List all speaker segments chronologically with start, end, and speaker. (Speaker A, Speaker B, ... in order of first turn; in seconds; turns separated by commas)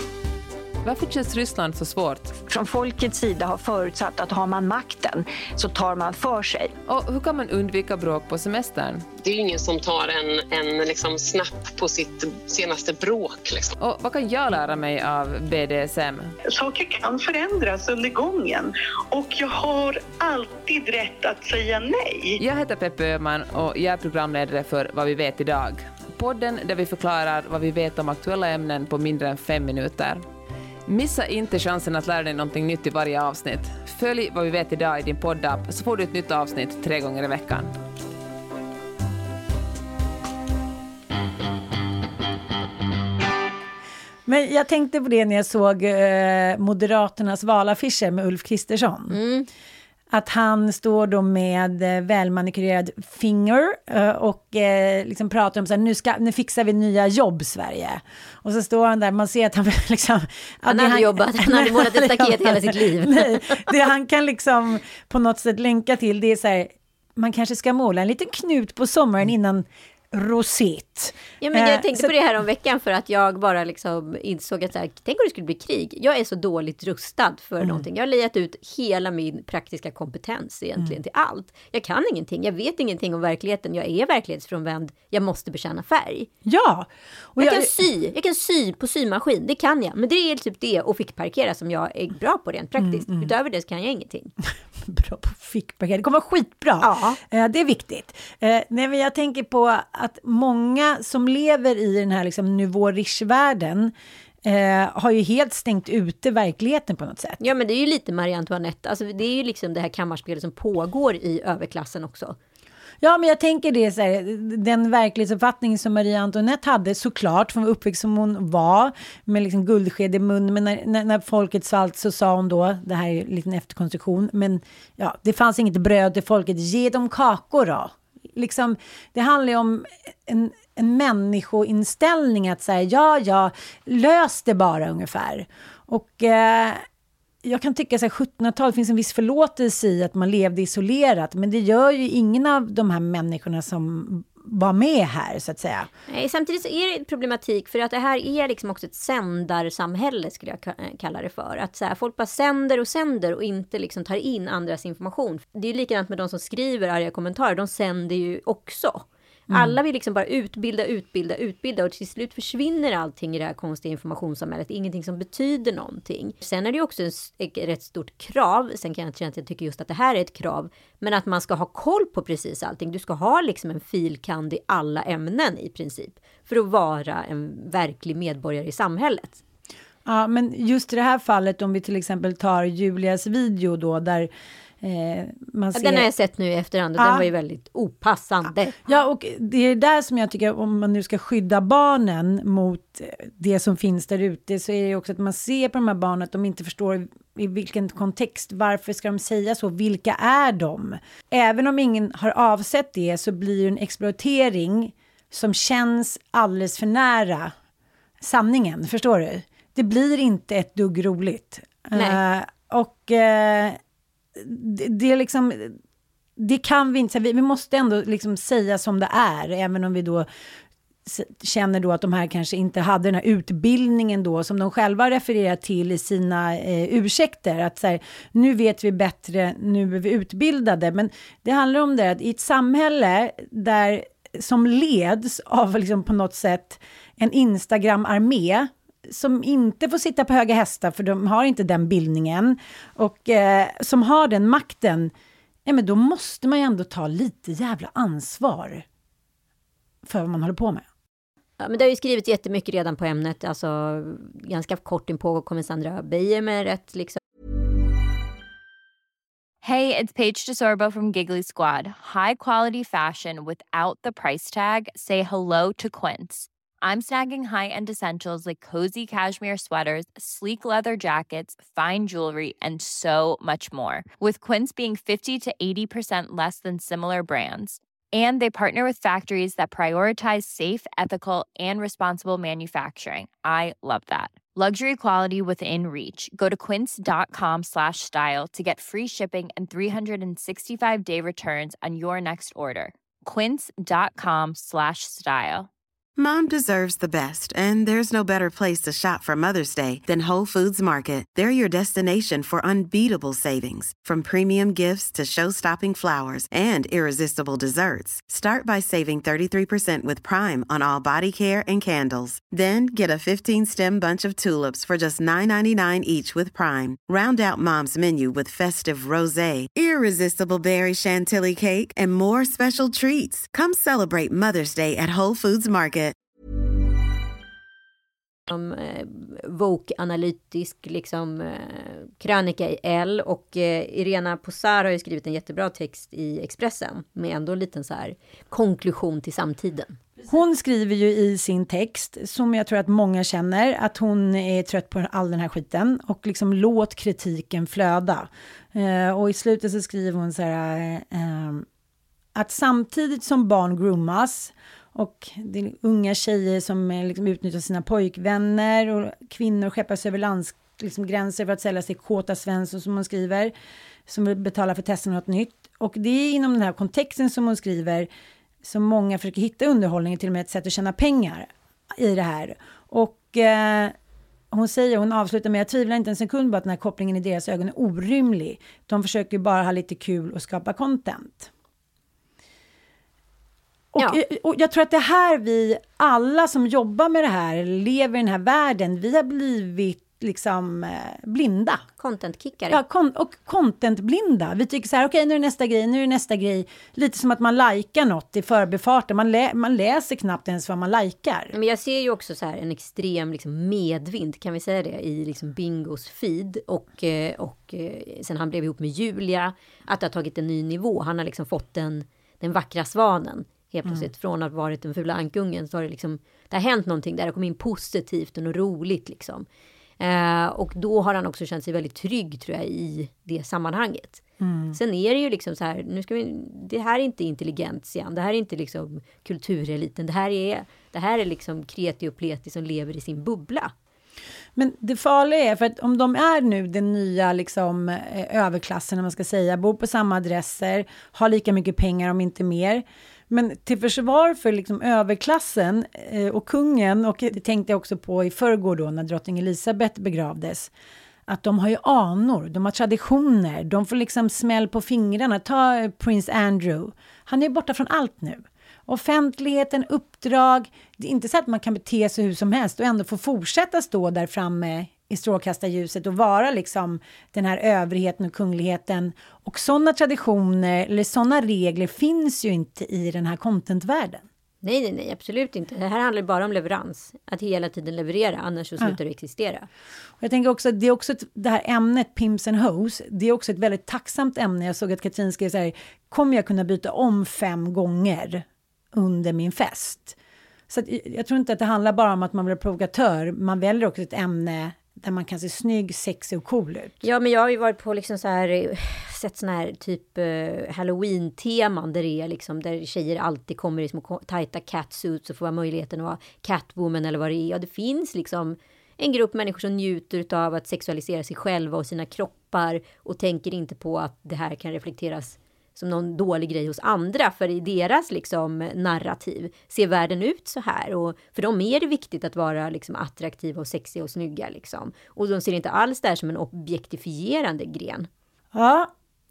Speaker A: 0.8-2.4, Speaker B: 2.4-6.7, Speaker A: 6.9-9.1, Speaker C: 9.2-13.7, Speaker A: 13.8-16.3, Speaker D: 16.5-22.4, Speaker A: 22.4-30.2, Speaker A: 30.9-37.7, Speaker E: 44.2-49.1, Speaker F: 49.1-49.5, Speaker E: 50.1-72.1, Speaker F: 60.7-63.7, Speaker F: 71.4-86.3, Speaker E: 86.4-87.7, Speaker F: 87.4-94.3, Speaker E: 92.8-93.3, Speaker E: 94.8-103.9, Speaker F: 96.8-97.2, Speaker E: 104.4-107.4, Speaker F: 107.4-112.4, Speaker E: 113.0-136.8, Speaker E: 137.4-145.9, Speaker F: 146.1-179.4, Speaker E: 159.5-159.8, Speaker E: 180.1-184.3, Speaker E: 184.8-186.1, Speaker F: 185.7-188.8, Speaker E: 187.0-187.2, Speaker E: 188.8-207.5, Speaker E: 208.2-213.8, Speaker F: 211.9-212.2, Speaker E: 214.3-215.8, Speaker E: 216.4-220.2, Speaker E: 221.1-245.1, Speaker E: 245.7-248.8, Speaker E: 250.0-250.8, Speaker F: 251.6-257.2, Speaker G: 259.6-295.7, Speaker H: 296.2-326.1, Speaker F: 328.5-340.0, Speaker E: 340.3-351.6, Speaker E: 352.3-363.5, Speaker E: 364.1-368.1, Speaker E: 368.6-373.9, Speaker E: 374.5-381.5, Speaker E: 383.9-391.8, Speaker F: 392.0-392.8, Speaker E: 392.7-401.5, Speaker F: 401.5-419.4, Speaker F: 420.0-433.7, Speaker E: 424.4-424.8, Speaker E: 434.6-450.7, Speaker E: 451.3-474.2, Speaker F: 474.6-479.7, Speaker E: 480.2-490.1, Speaker E: 490.7-497.0, Speaker F: 497.0-528.1, Speaker E: 528.5-528.9